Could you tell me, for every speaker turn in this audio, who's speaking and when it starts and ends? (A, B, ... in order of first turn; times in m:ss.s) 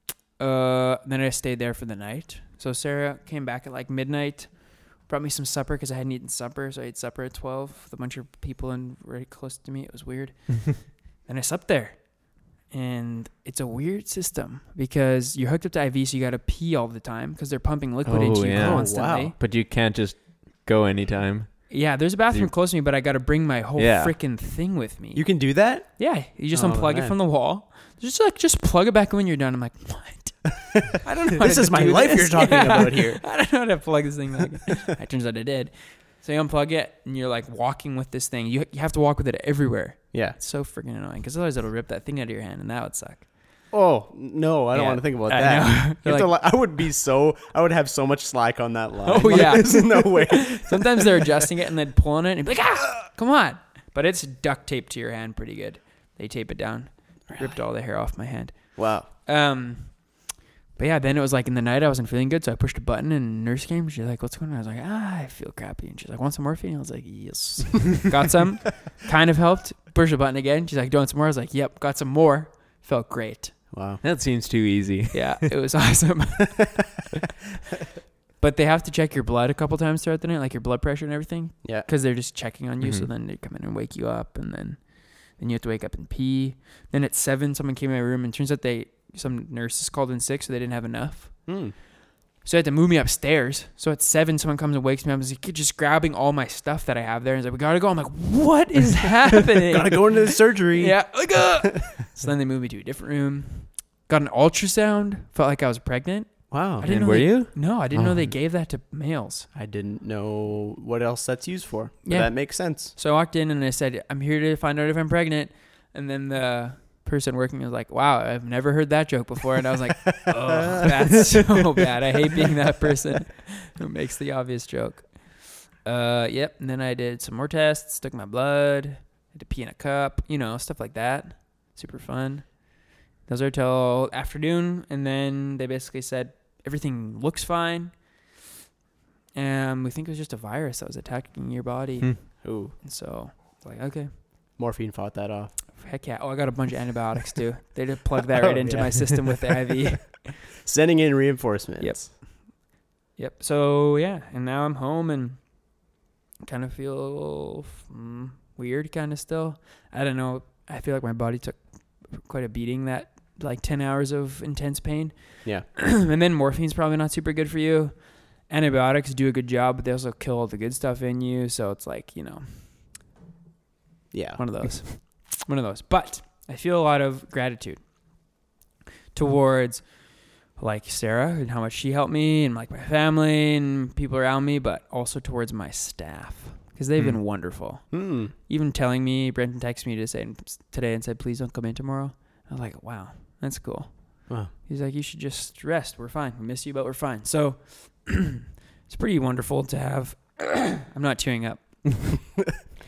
0:00.4-0:19.4 A
0:18.1-0:22.5 B
0:18.6-0:19.4 C
0:21.7-0:43.3 A
0:23.8-0:24.1 B
0:25.2-0:27.2 C
0:31.4-0:33.3 C
0:40.1-0:40.4 C
0:43.7-0:51.1 C
0:44.7-0:46.6 A
0:49.0-1:13.6 A
0:57.3-0:57.6 C
0:58.8-0:59.1 C
1:13.7-1:14.0 C
1:14.0-1:15.4 B
1:15.1-1:16.9 A
1:18.4-1:31.6 A
1:22.8-1:23.1 B
1:31.5-1:31.8 C
1:32.4-1:49.5 A
1:39.7-1:41.6 C
1:46.5-1:46.9 C
1:46.8-1:48.3 B
1:49.5-1:53.0 C
1:52.0-2:18.2 A
2:00.3-2:00.7 C
2:19.3-2:24.2 A
2:22.4-2:22.8 C
2:24.6-2:25.6 C
2:25.8-2:30.3 A
2:28.4-2:29.5 C
2:30.5-2:32.1 C
2:31.8-2:35.7 A
2:36.4-2:52.7 A
2:54.1-2:54.4 C
2:54.4-2:58.1 A
2:59.1-3:22.4 A
3:07.9-3:08.3 C